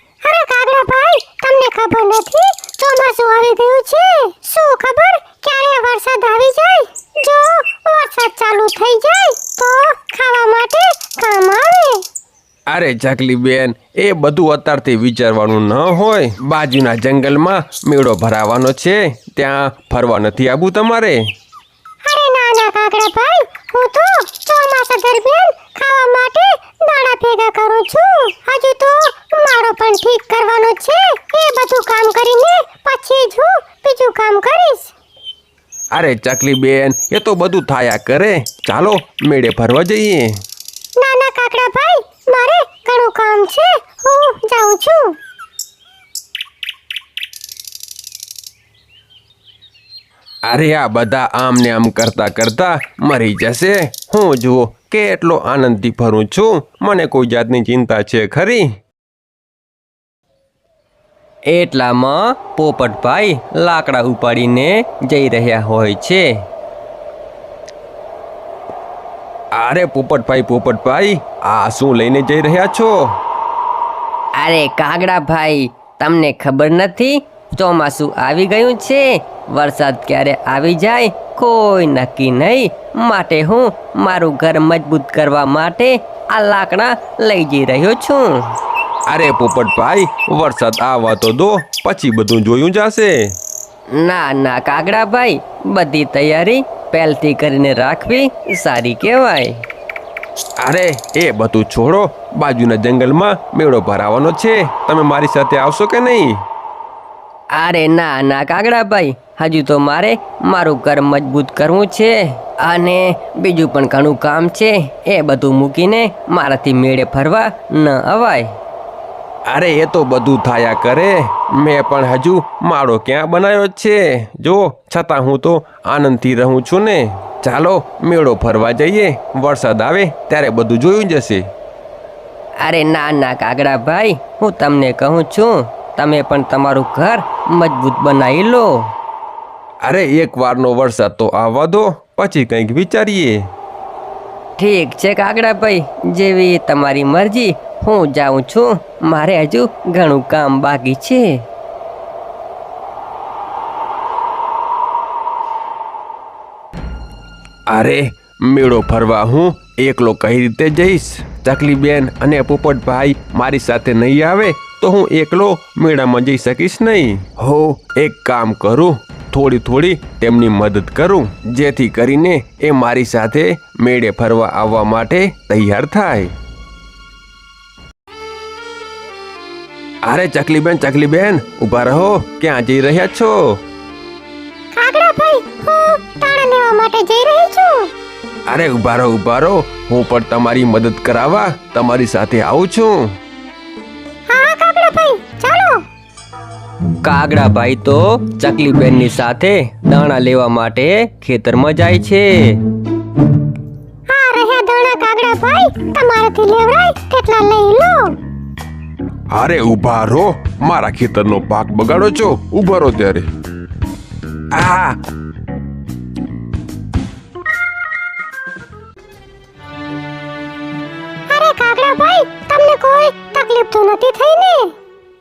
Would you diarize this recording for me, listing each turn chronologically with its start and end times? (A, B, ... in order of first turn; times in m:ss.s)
0:00.2-0:12.0 A
0:12.7-0:21.2 B
0:22.0-0:34.9 A
0:35.9-0:40.4 B
0:41.0-0:45.2 A
0:50.5-0:58.7 B
1:01.5-1:06.3 C
1:09.5-1:13.2 B
1:14.4-1:28.5 C
1:29.1-1:33.2 B
1:33.9-1:39.6 C
1:40.6-1:46.4 B
1:47.6-1:58.6 C
1:59.5-2:11.5 B
2:12.6-2:18.9 C
2:19.8-2:23.5 B
2:24.6-2:31.3 C
2:37.7-2:56.3 B
3:00.0-3:03.6 B
3:04.8-3:07.9 A
3:08.5-3:13.2 B
3:14.3-3:15.8 A
3:17.0-3:22.6 C
3:24.1-3:28.2 A
3:29.3-3:33.3 B
3:34.5-3:35.0 B
3:41.3-3:44.7 A